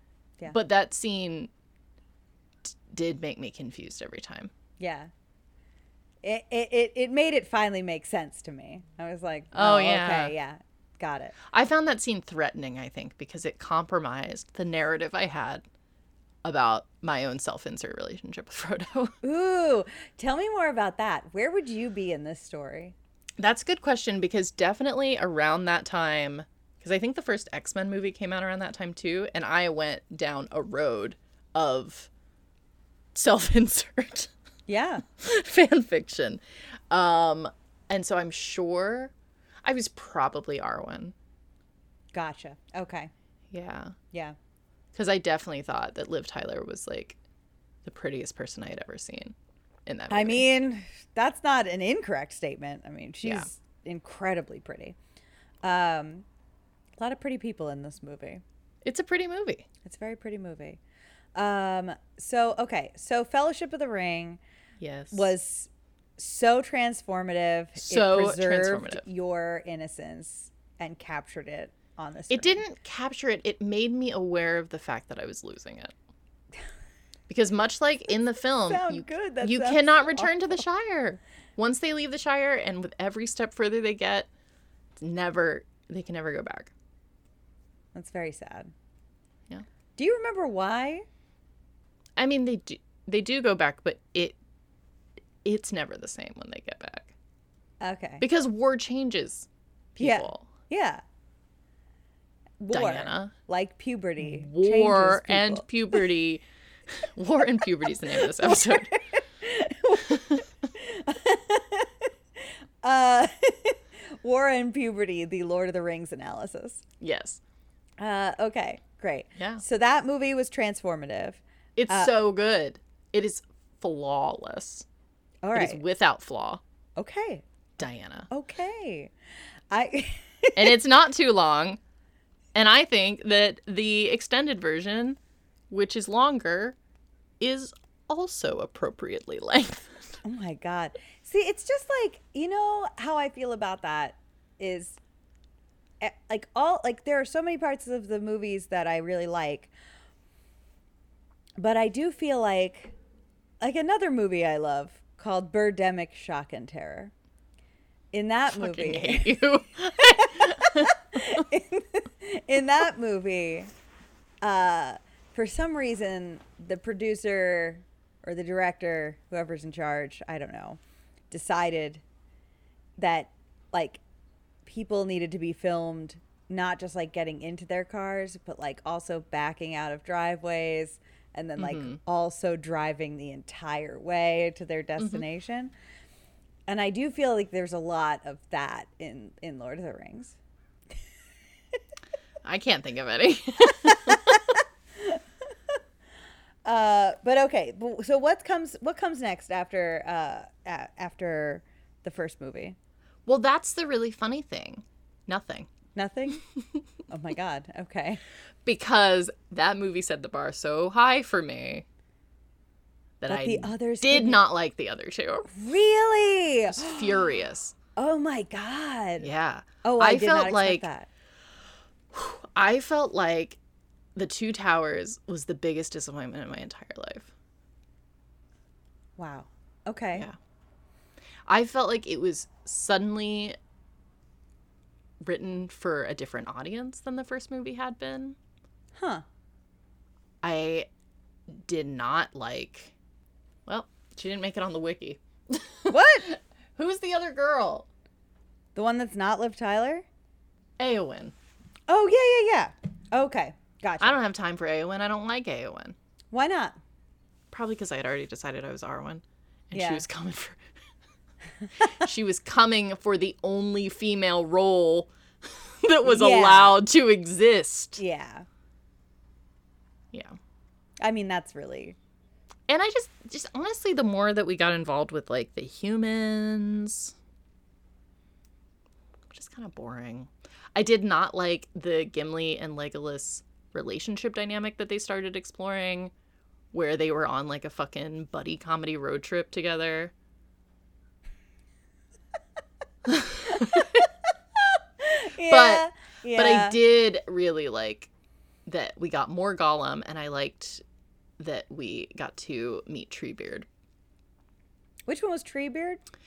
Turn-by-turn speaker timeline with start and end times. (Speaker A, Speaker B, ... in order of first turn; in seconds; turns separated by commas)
Speaker A: 0.5-1.5, Speaker A: 2.9-4.5, Speaker B: 4.8-5.1, Speaker B: 6.2-11.3, Speaker A: 9.5-10.3, Speaker A: 11.5-15.6, Speaker A: 16.4-19.1, Speaker B: 19.2-22.9, Speaker A: 23.4-32.1, Speaker A: 33.1-34.3, Speaker B: 34.7-35.0, Speaker A: 35.1-39.1, Speaker A: 39.6-41.1, Speaker B: 42.1-43.1, Speaker A: 43.5-43.9, Speaker A: 44.9-47.2, Speaker A: 47.8-49.3, Speaker A: 49.9-50.5, Speaker B: 50.1-55.0, Speaker A: 53.2-53.5, Speaker B: 55.6-56.2, Speaker B: 57.0-58.4, Speaker A: 58.8-59.7, Speaker B: 59.8-60.8, Speaker B: 61.3-64.4, Speaker A: 64.8-65.2, Speaker B: 65.1-72.6, Speaker A: 67.8-69.0, Speaker A: 72.3-75.9, Speaker A: 77.3-84.3, Speaker B: 78.5-80.6, Speaker A: 85.0-86.7, Speaker B: 87.9-88.7, Speaker B: 90.0-91.0, Speaker A: 92.2-94.3, Speaker A: 95.4-97.1, Speaker B: 97.8-98.2, Speaker A: 98.2-100.5, Speaker B: 100.0-101.0, Speaker B: 102.6-105.7, Speaker A: 102.7-103.3, Speaker A: 104.2-106.4, Speaker A: 107.1-108.9, Speaker B: 108.4-112.1, Speaker A: 110.1-110.4, Speaker B: 112.8-116.8, Speaker A: 117.0-117.4, Speaker B: 118.0-122.1, Speaker A: 119.4-119.6, Speaker A: 121.8-124.8, Speaker B: 125.4-125.8, Speaker A: 125.5-126.6, Speaker B: 127.0-127.4, Speaker A: 127.8-128.3, Speaker B: 128.3-129.1, Speaker B: 129.7-130.8, Speaker A: 130.6-131.8, Speaker A: 132.5-135.2, Speaker A: 135.7-136.8, Speaker A: 137.4-140.2, Speaker B: 140.2-145.0, Speaker B: 146.0-149.7, Speaker B: 151.6-152.9, Speaker B: 153.6-157.1, Speaker B: 158.1-159.4, Speaker A: 158.5-161.4, Speaker B: 160.1-163.7, Speaker B: 164.4-170.8, Speaker B: 171.3-172.0, Speaker B: 173.0-174.0, Speaker B: 174.6-185.7, Speaker A: 181.6-182.0, Speaker A: 185.0-185.2, Speaker B: 186.7-190.3, Speaker A: 192.4-194.4, Speaker B: 193.9-194.3, Speaker B: 196.6-202.8, Speaker A: 203.3-205.7, Speaker B: 205.9-206.4, Speaker B: 207.1-208.2, Speaker A: 208.6-211.8, Speaker A: 213.2-215.5, Speaker B: 213.3-214.4, Speaker B: 215.5-217.3, Speaker A: 216.7-217.7, Speaker B: 217.9-219.3, Speaker A: 219.2-220.9, Speaker B: 219.8-221.1, Speaker A: 222.1-223.6, Speaker A: 224.2-227.3, Speaker B: 229.2-230.3, Speaker A: 231.5-233.6, Speaker A: 235.2-238.3, Speaker B: 238.9-239.2, Speaker A: 240.4-240.9, Speaker A: 241.5-242.9, Speaker A: 243.7-247.9, Speaker B: 245.9-246.3, Speaker B: 248.7-250.1, Speaker A: 250.8-251.3, Speaker B: 251.9-254.2, Speaker A: 254.0-255.9, Speaker B: 256.3-256.8, Speaker A: 257.5-260.6, Speaker B: 259.7-260.0, Speaker A: 262.0-265.1, Speaker A: 265.8-268.0, Speaker B: 266.0-266.8, Speaker B: 268.0-268.4, Speaker B: 271.0-271.9, Speaker A: 272.7-277.1, Speaker A: 279.3-286.1, Speaker A: 286.7-290.1, Speaker A: 293.1-294.0, Speaker B: 293.5-293.8, Speaker B: 295.0-296.8, Speaker A: 295.5-298.1, Speaker A: 298.6-300.8, Speaker A: 301.4-303.6, Speaker B: 305.1-306.0